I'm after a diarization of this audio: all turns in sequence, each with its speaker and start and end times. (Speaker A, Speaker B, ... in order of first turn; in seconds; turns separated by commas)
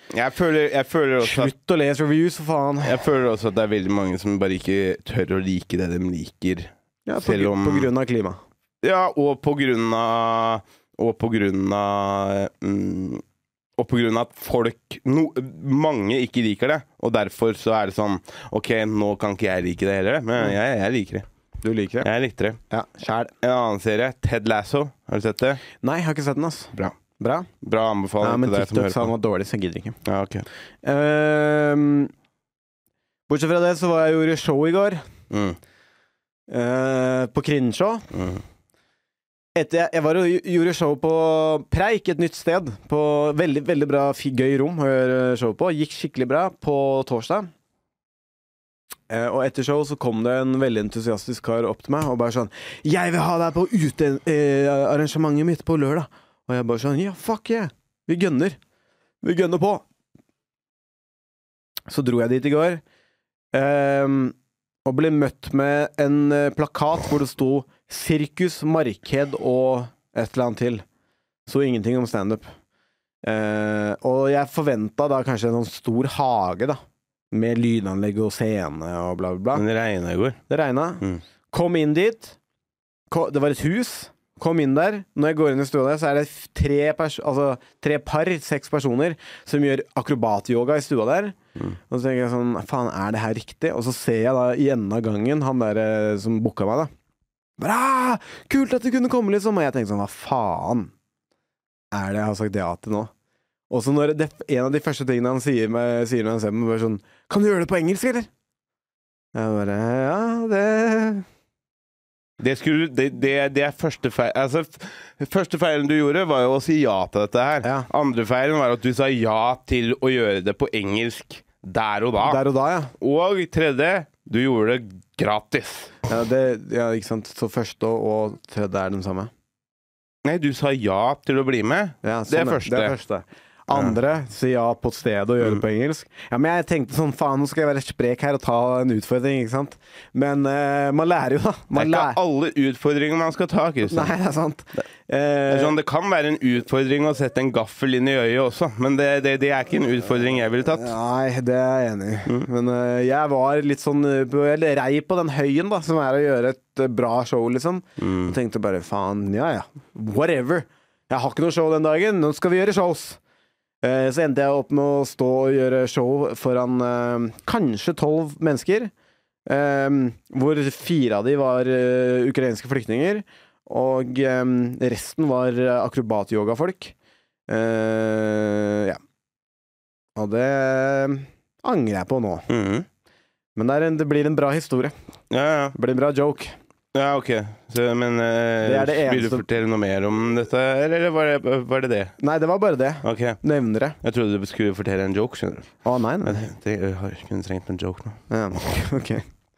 Speaker A: 0.1-1.5, Speaker B: 1.2-3.0, Speaker A: 2.8-7.9, Speaker B: 7.1-8.4, Speaker A: 8.8-13.2, Speaker A: 13.8-21.2, Speaker B: 21.6-22.1, Speaker A: 22.0-22.6, Speaker B: 22.7-23.3, Speaker A: 23.4-25.6, Speaker B: 25.8-27.5, Speaker A: 27.6-29.1, Speaker B: 28.2-30.0, Speaker A: 30.0-30.4, Speaker B: 30.8-32.1, Speaker B: 33.3-35.0, Speaker A: 35.3-35.6, Speaker B: 36.5-38.0, Speaker A: 38.1-38.4, Speaker B: 39.5-47.5, Speaker B: 49.1-58.6, Speaker B: 59.2-59.8, Speaker B: 61.9-62.8, Speaker B: 63.5-70.8, Speaker B: 71.5-72.5, Speaker B: 73.2-76.8, Speaker B: 77.3-79.6, Speaker A: 79.5-80.4, Speaker B: 80.5-82.3, Speaker B: 83.1-91.3, Speaker B: 91.9-96.9, Speaker B: 97.6-100.9, Speaker B: 101.9-103.1, Speaker B: 103.7-108.3, Speaker B: 109.3-111.2, Speaker A: 112.4-122.4, Speaker B: 122.2-122.9, Speaker A: 123.0-125.9, Speaker B: 126.1-129.3, Speaker A: 130.2-132.9, Speaker B: 132.0-142.2, Speaker A: 141.7-144.1, Speaker B: 143.8-145.8, Speaker A: 145.5-150.9, Speaker B: 150.8-163.2, Speaker A: 158.0-158.3, Speaker B: 163.8-168.9, Speaker B: 169.4-176.9, Speaker B: 177.5-179.0, Speaker B: 180.2-182.5, Speaker A: 182.5-182.9, Speaker B: 183.6-184.9, Speaker A: 185.3-185.7, Speaker B: 185.7-186.5, Speaker A: 186.9-192.1, Speaker B: 188.6-189.4, Speaker B: 192.2-194.0, Speaker A: 193.0-193.4, Speaker A: 194.0-195.7, Speaker B: 195.8-196.4, Speaker A: 196.2-198.2, Speaker B: 198.3-199.2